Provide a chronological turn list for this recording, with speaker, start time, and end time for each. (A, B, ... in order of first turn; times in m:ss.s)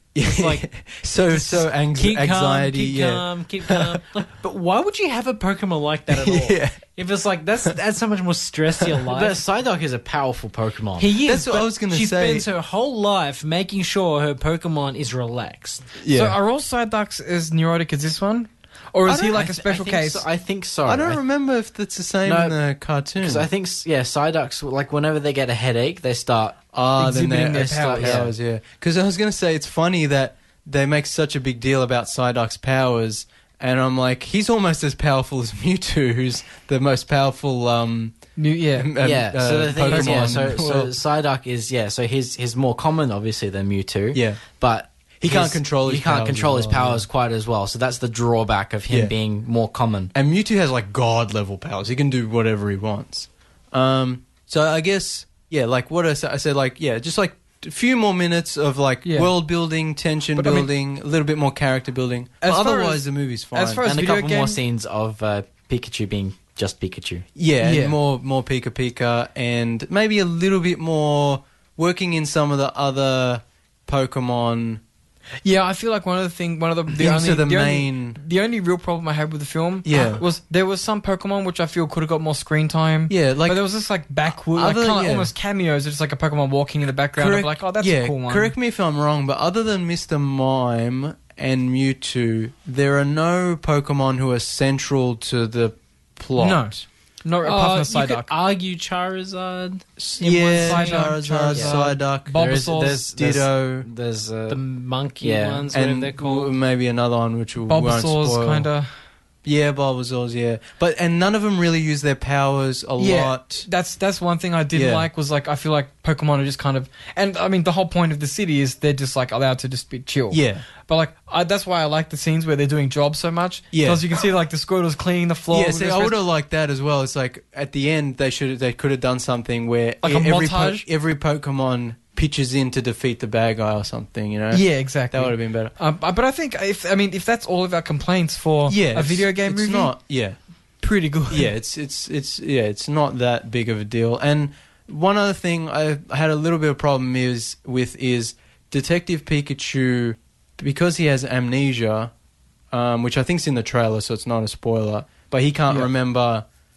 0:00.1-0:04.0 A
0:00.2-0:00.6 B
0:01.3-0:09.4 B
0:06.1-0:06.8 A
0:09.1-0:11.1 C
0:11.0-0:15.9 B
0:11.2-0:12.4 A
0:16.0-0:16.4 A
0:16.1-0:20.2 D
0:19.0-0:19.3 A
0:19.1-0:21.2 C
0:20.8-0:23.5 A
0:22.2-0:22.6 C
0:23.2-0:26.6 C
0:26.7-0:38.2 A
0:27.0-0:28.2 D
0:27.4-0:28.3 C
0:38.4-0:39.0 D
0:38.7-0:40.9 A
0:39.0-0:50.1 C
0:39.8-0:40.7 D
0:44.1-0:44.4 A
0:45.2-0:47.0 A
0:48.9-0:49.1 A
0:50.1-1:03.9 A
0:59.0-0:59.3 D
1:00.4-1:00.7 D
1:02.4-1:04.6 D
1:03.8-1:07.2 C
1:07.4-1:14.8 A
1:07.6-1:08.0 D
1:15.4-1:28.5 D
1:16.9-1:18.2 A
1:19.8-1:20.2 A
1:23.1-1:23.6 A
1:24.5-1:25.3 A
1:27.2-1:36.8 A
1:36.4-1:38.3 D
1:37.4-1:41.1 B
1:40.0-1:42.5 A
1:40.6-1:43.0 D
1:41.5-1:44.6 C
1:43.1-1:43.9 A
1:44.5-1:46.5 B
1:45.2-1:45.7 C
1:45.7-1:48.7 A
1:47.6-1:48.9 D
1:49.4-1:53.6 A
1:53.0-2:06.2 D
1:54.7-1:55.1 A
2:00.3-2:00.6 A
2:03.7-2:04.0 A
2:05.5-2:15.7 A
2:10.0-2:10.8 D
2:14.5-2:19.9 D
2:18.7-2:20.4 A
2:20.8-2:21.5 D
2:21.3-2:32.1 A
2:32.7-2:36.4 A